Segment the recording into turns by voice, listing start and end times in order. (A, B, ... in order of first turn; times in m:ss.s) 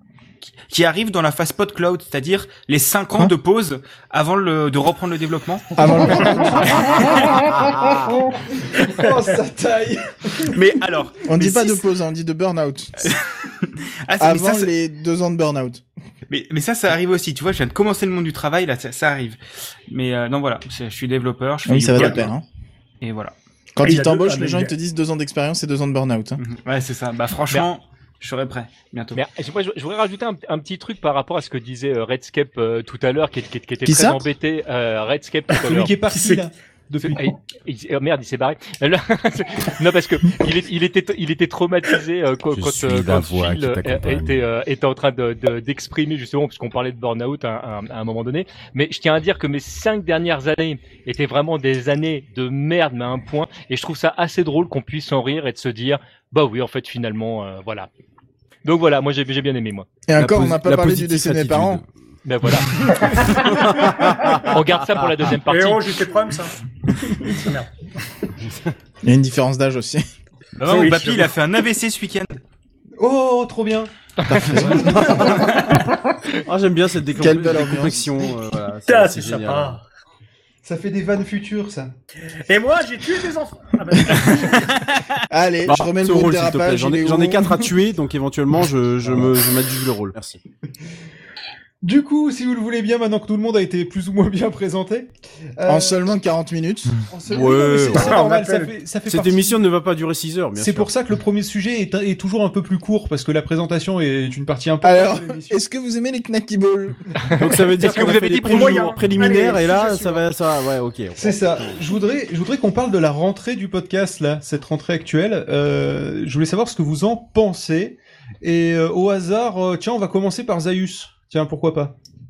0:00.4-0:05.8 A
0:05.8-0:07.0 B
0:07.4-0:08.0 C
0:08.7-0:10.6 D
0:10.5-0:11.8 A
0:11.2-0:13.1 B
0:13.0-0:14.7 A
0:14.2-0:15.8 B
0:16.3-0:22.3 A
0:21.6-0:22.4 B
0:23.0-0:23.3 A
0:23.7-0:26.4 B
0:23.8-0:24.7 E
0:26.4-0:29.2 A
0:29.1-0:35.9 F
0:33.8-0:34.2 B
0:35.6-0:37.3 D
0:36.1-0:36.5 E
0:37.0-0:57.9 F
0:42.5-0:44.4 C
0:58.6-0:59.9 F
1:00.1-1:01.8 B
1:00.2-1:01.8 C
1:02.2-1:03.4 F
1:03.4-1:04.4 C
1:04.3-1:06.0 F
1:05.5-1:06.6 E
1:07.2-1:07.7 E
1:09.0-1:10.0 B
1:10.6-1:12.4 A
1:10.6-1:11.3 E
1:13.0-1:13.9 D
1:14.3-1:15.3 B
1:15.2-1:15.4 C
1:16.5-1:19.8 C
1:17.1-1:18.2 B
1:18.9-1:19.8 E
1:20.6-1:21.9 D
1:22.5-1:24.6 E
1:25.3-1:27.6 B
1:25.6-1:30.4 C
1:31.8-1:36.0 D
1:35.6-1:37.0 B
1:37.1-1:39.6 D
1:37.3-1:38.2 C
1:37.9-1:38.7 E
1:39.0-1:40.9 C
1:40.6-1:45.6 D
1:44.8-1:47.0 B
1:47.4-1:49.0 F
1:47.4-1:51.8 C
1:47.8-1:50.3 E
1:51.1-2:01.9 D